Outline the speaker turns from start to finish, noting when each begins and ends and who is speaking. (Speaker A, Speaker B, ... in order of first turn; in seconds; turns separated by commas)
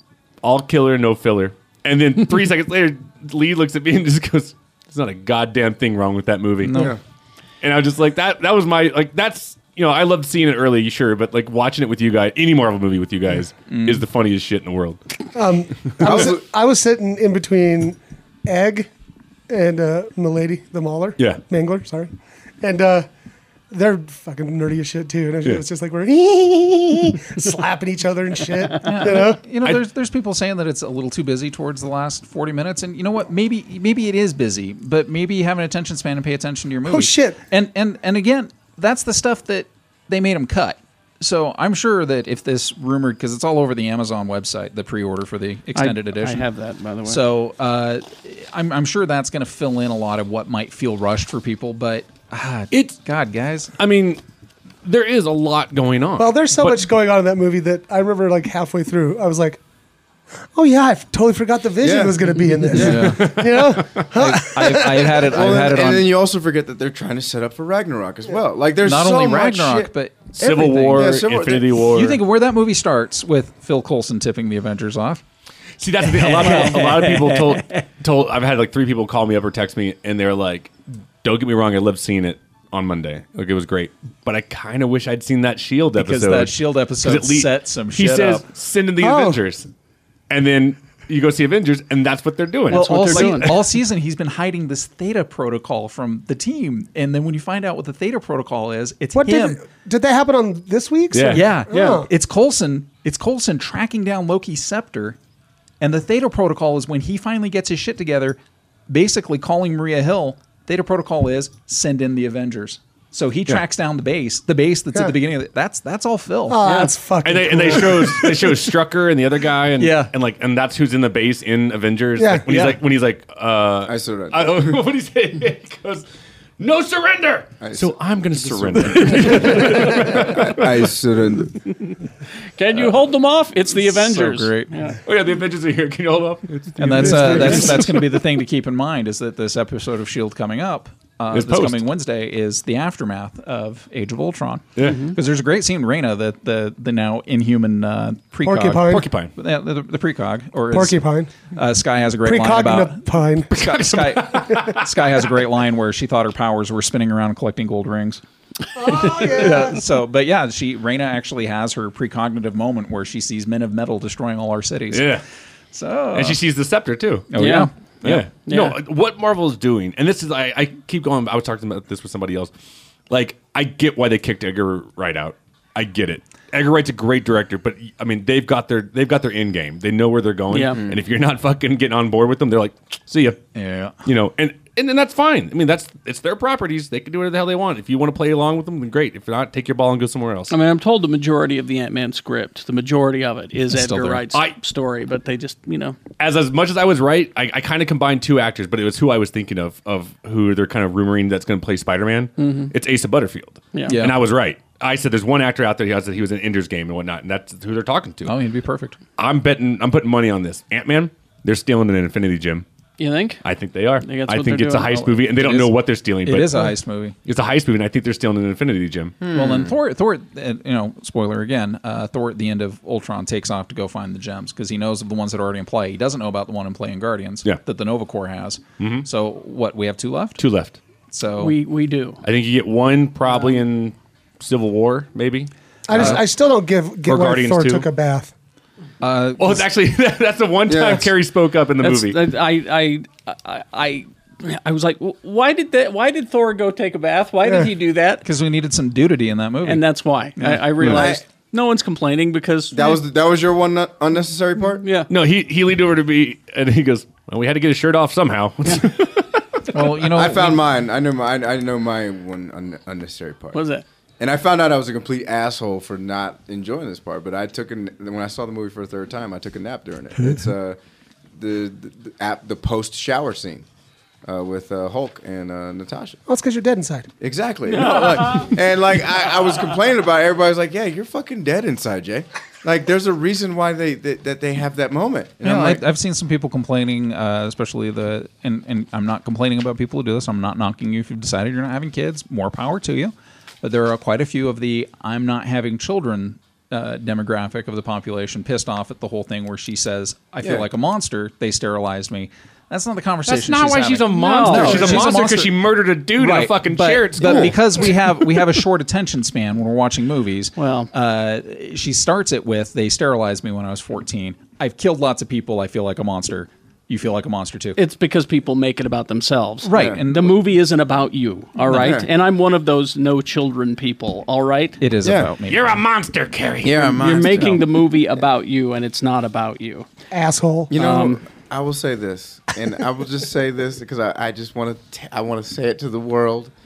Speaker A: 0.4-6.8, Speaker B: 6.6-6.9, Speaker C: 6.7-7.0, Speaker A: 7.6-15.0, Speaker B: 13.7-14.0, Speaker D: 15.3-18.9, Speaker C: 16.0-16.4, Speaker D: 19.5-23.1, Speaker D: 23.7-29.4, Speaker B: 28.8-46.5, Speaker D: 36.9-37.4, Speaker E: 45.7-47.2, Speaker B: 47.0-53.7, Speaker A: 52.7-53.0, Speaker A: 53.8-54.2, Speaker A: 54.8-56.8, Speaker D: 56.2-59.6, Speaker D: 60.5-65.4, Speaker C: 61.8-63.1, Speaker B: 62.7-63.4, Speaker A: 62.8-64.1, Speaker B: 64.1-66.1, Speaker C: 65.2-71.8, Speaker B: 68.8-71.1, Speaker A: 70.4-72.2, Speaker B: 71.8-75.2, Speaker A: 75.8-89.7, Speaker B: 76.0-77.8, Speaker B: 86.0-88.4, Speaker D: 89.0-89.4, Speaker A: 90.3-93.5, Speaker B: 92.7-99.6, Speaker E: 92.7-93.5, Speaker D: 99.1-102.1, Speaker A: 101.1-101.5, Speaker B: 101.3-105.2, Speaker B: 105.8-108.4, Speaker B: 108.9-116.9, Speaker D: 116.5-118.6, Speaker A: 117.2-126.0, Speaker B: 119.8-120.1, Speaker D: 122.2-122.5, Speaker B: 122.5-122.8, Speaker C: 123.8-124.8, Speaker A: 126.6-130.8, Speaker C: 127.6-131.5, Speaker E: 131.7-131.9, Speaker E: 132.6-135.0, Speaker B: 133.7-134.7, Speaker A: 135.0-138.0, Speaker B: 136.8-158.2, Speaker A: 141.3-141.8, Speaker A: 144.8-145.0, Speaker E: 144.8-145.1, Speaker D: 148.4-149.1, Speaker A: 148.9-149.3, Speaker D: 150.7-151.3, Speaker D: 152.2-153.5, Speaker A: 153.5-154.8, Speaker D: 158.7-159.8, Speaker B: 158.8-165.2, Speaker A: 164.9-165.2, Speaker B: 165.7-166.4, Speaker A: 166.1-167.3, Speaker B: 167.3-168.3, Speaker E: 167.4-167.7, Speaker A: 168.0-172.5, Speaker E: 168.4-168.8, Speaker A: 173.1-183.4, Speaker E: 180.5-180.8, Speaker C: 180.8-181.0, Speaker B: 183.5-183.9, Speaker A: 184.0-190.5, Speaker E: 190.5-196.0, Speaker B: 193.7-194.2, Speaker A: 196.2-208.3, Speaker E: 202.4-202.7, Speaker B: 203.9-204.2, Speaker B: 208.2-209.0, Speaker A: 209.2-212.7, Speaker E: 213.0-213.4, Speaker A: 213.4-216.7, Speaker E: 214.0-214.9, Speaker B: 214.9-217.1, Speaker A: 217.2-219.2, Speaker C: 219.2-219.7, Speaker B: 219.3-230.4, Speaker A: 228.8-229.1, Speaker A: 230.4-230.8, Speaker B: 231.1-231.6, Speaker E: 231.4-232.2, Speaker A: 232.2-236.2, Speaker D: 235.9-238.3, Speaker B: 235.9-236.2, Speaker A: 237.0-237.9, Speaker B: 239.0-239.6, Speaker A: 239.4-242.2, Speaker C: 240.7-241.1, Speaker E: 241.8-248.2, Speaker B: 248.2-249.8, Speaker E: 249.6-253.0, Speaker B: 250.4-251.1, Speaker C: 250.8-251.2, Speaker C: 252.7-254.8, Speaker E: 254.8-255.1, Speaker A: 255.1-259.3, Speaker B: 259.7-260.6, Speaker C: 260.1-263.6, Speaker E: 263.5-263.8, Speaker C: 264.2-270.8, Speaker C: 271.4-273.6, Speaker C: 274.2-276.2, Speaker D: 276.3-277.1, Speaker C: 277.2-285.8, Speaker E: 277.7-278.5, Speaker B: 285.4-317.8, Speaker A: 303.2-307.6, Speaker E: 304.1-305.1, Speaker C: 307.2-307.5, Speaker E: 310.6-310.9, Speaker E: 317.8-324.8, Speaker B: 319.6-320.4, Speaker C: 319.7-320.0, Speaker C: 321.7-322.1, Speaker B: 324.8-325.8, Speaker C: 325.0-325.3, Speaker A: 325.5-327.2, Speaker C: 326.6-327.6, Speaker E: 327.0-329.9, Speaker D: 330.1-330.7, Speaker C: 330.7-336.5, Speaker E: 330.7-331.2